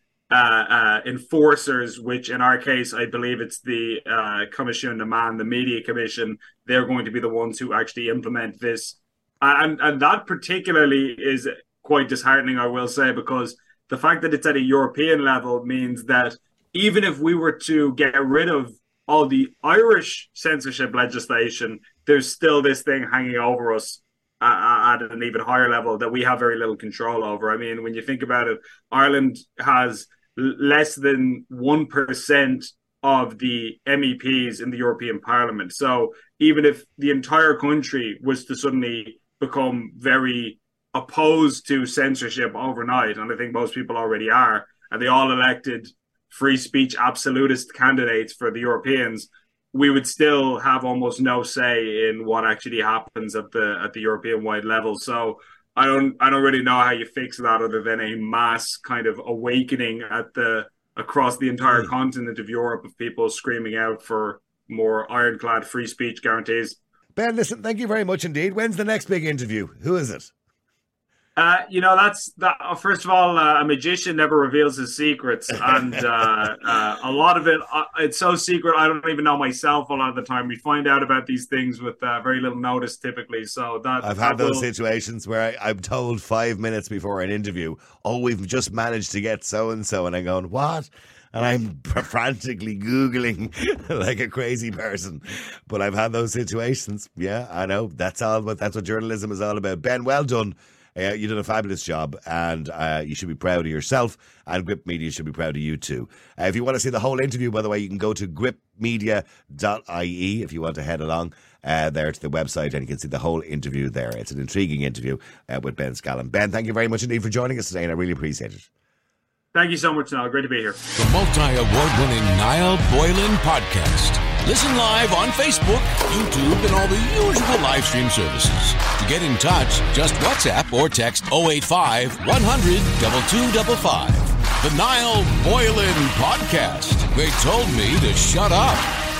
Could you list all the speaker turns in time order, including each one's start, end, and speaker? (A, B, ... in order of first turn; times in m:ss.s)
0:00.3-1:06.8 A
1:07.2-1:10.3 B
1:11.4-1:24.7 A
1:24.0-1:58.7 B
1:59.5-2:00.8 A
2:01.0-2:18.8 C